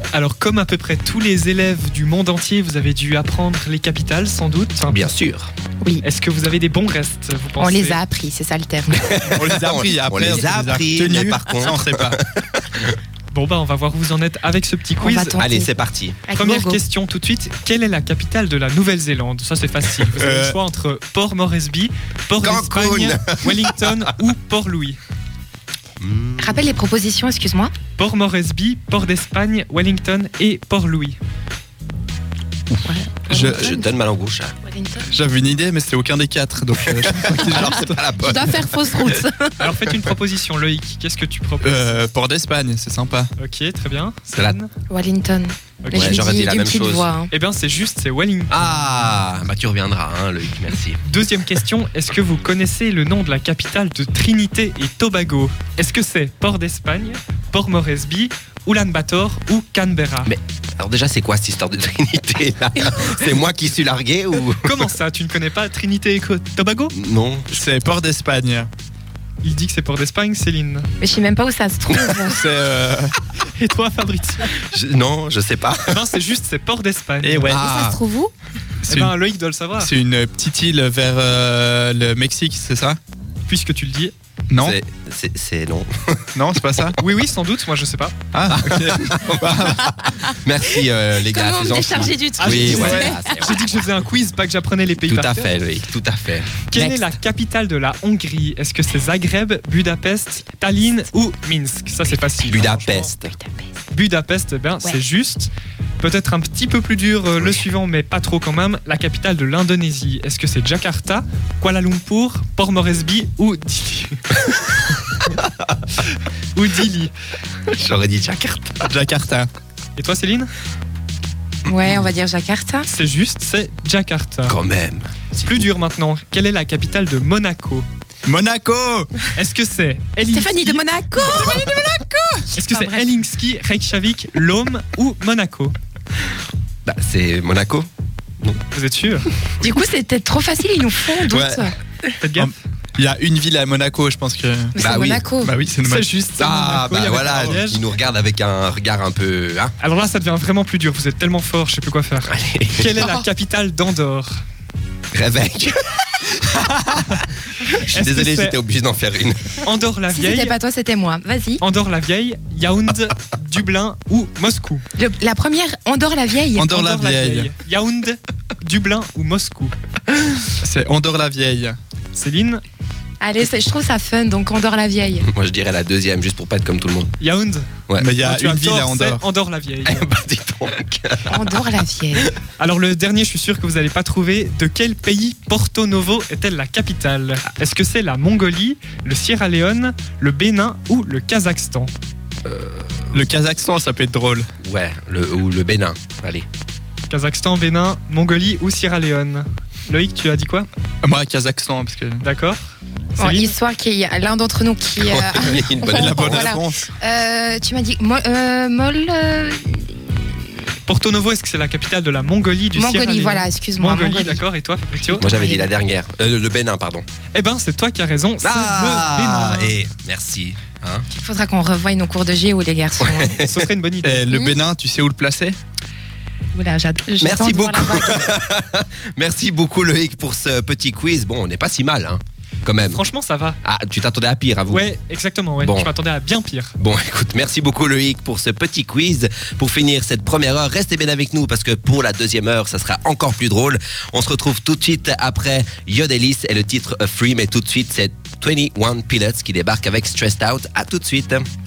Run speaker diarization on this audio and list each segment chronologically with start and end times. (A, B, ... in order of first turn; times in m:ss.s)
0:00.1-0:05.0 A
0:04.9-0:05.5 B
0:06.0-0:08.0 A
0:07.6-0:09.2 C
0:08.9-0:13.0 B
0:09.2-0:12.2 D
0:13.3-0:15.4 A
0:15.0-0:15.7 C
0:15.4-0:16.2 B
0:16.2-0:16.8 C
0:16.4-0:25.0 A
0:20.2-0:20.6 D
0:22.4-0:23.8 B
0:26.0-0:26.8 B
0:26.4-0:27.7 C
0:28.0-0:31.2 A
0:32.8-0:33.9 C
0:33.3-0:33.7 D
0:33.4-0:34.5 B
0:34.6-0:35.1 C
0:35.1-0:38.0 D
0:37.0-0:39.0 B
0:37.2-0:39.7 C
0:39.6-0:42.0 A
0:41.6-0:43.3 D
0:43.4-0:44.7 A
0:44.9-0:47.3 C
0:45.8-0:46.3 A
0:45.9-0:47.1 B
0:47.3-0:48.7 A
0:48.5-0:51.0 B
0:51.0-1:00.3 A
1:00.2-1:04.7 B
1:04.6-1:06.9 A
1:06.9-1:07.6 B
1:07.5-1:08.7 D
1:09.4-1:10.9 A
1:11.0-1:12.4 C
1:12.2-1:13.1 D
1:13.4-1:14.6 A
1:14.7-1:15.9 B
1:15.9-1:17.5 A
1:17.2-1:17.7 D
1:17.5-1:18.0 B
1:17.5-1:18.3 C
1:18.8-1:19.1 D
1:18.9-1:19.9 A
1:19.8-1:23.0 D
1:23.5-1:24.1 A
1:24.5-1:24.8 D
1:24.6-1:26.3 B
1:26.3-1:27.0 D
1:27.0-1:28.1 A
1:28.3-1:30.0 D
1:28.5-1:33.7 B
1:31.2-1:33.8 C
1:32.4-1:35.6 A
1:32.5-1:33.1 D
1:35.1-1:36.6 B
1:36.7-1:43.1 A
1:36.7-1:37.0 C
1:42.5-1:43.3 B
1:43.2-1:43.7 C
1:43.9-1:55.2 A
1:56.5-1:57.1 A
1:57.7-1:58.9 B
1:58.8-1:59.5 D
2:00.0-2:00.5 A
2:01.6-2:02.9 C
2:02.8-2:04.6 A
2:04.5-2:05.3 B
2:05.3-2:07.8 A
2:08.2-2:09.1 D
2:09.3-2:10.9 A
2:10.3-2:13.0 C
2:11.2-2:11.9 D
2:12.5-2:15.7 A
2:16.8-2:17.9 B
2:18.7-2:19.3 A
2:19.6-2:21.7 C
2:21.2-2:21.7 B
2:22.2-2:22.5 A
2:22.3-2:24.7 D
2:24.7-2:25.5 C
2:24.8-2:25.2 B
2:25.4-2:26.1 D
2:25.8-2:27.8 A
2:26.4-2:29.7 B
2:29.8-2:34.4 A
2:32.2-2:32.9 B
2:35.1-2:39.6 B
2:37.6-2:38.5 A
2:39.6-2:40.6 A
2:40.1-2:41.6 C
2:41.6-2:44.8 A
2:45.0-2:46.7 C
2:46.5-2:47.5 D
2:46.7-2:49.7 A
2:50.6-2:51.8 D
2:52.1-2:52.6 A
2:53.2-2:55.2 C
2:55.2-2:57.1 B
2:57.2-3:00.0 A
2:58.0-2:59.2 D
2:59.8-3:02.3 B
3:01.3-3:02.3 C
3:02.6-3:11.9 A
3:12.4-3:13.0 B
3:13.1-3:14.5 D
3:14.6-3:16.4 B
3:17.1-3:20.7 A
3:21.0-3:22.2 D
3:22.2-3:22.6 A
3:23.2-3:23.5 A
3:23.2-3:30.6 C
3:25.0-3:26.5 B
3:25.8-3:26.9 D
3:30.8-3:35.2 A
3:32.7-3:34.4 C
3:35.0-3:35.7 C
3:35.2-3:37.0 B
3:37.3-3:39.7 A
3:38.4-3:41.0 B
3:41.1-3:43.4 C
3:43.0-3:43.6 B
3:43.4-3:44.2 A
3:44.0-3:45.6 D
3:44.3-3:44.6 C
3:46.5-3:48.3 C
3:47.2-3:53.0 B
3:52.9-3:53.6 A
3:53.6-3:54.8 B
3:54.7-3:56.7 A
3:55.6-3:55.9 B
3:56.8-4:11.4 B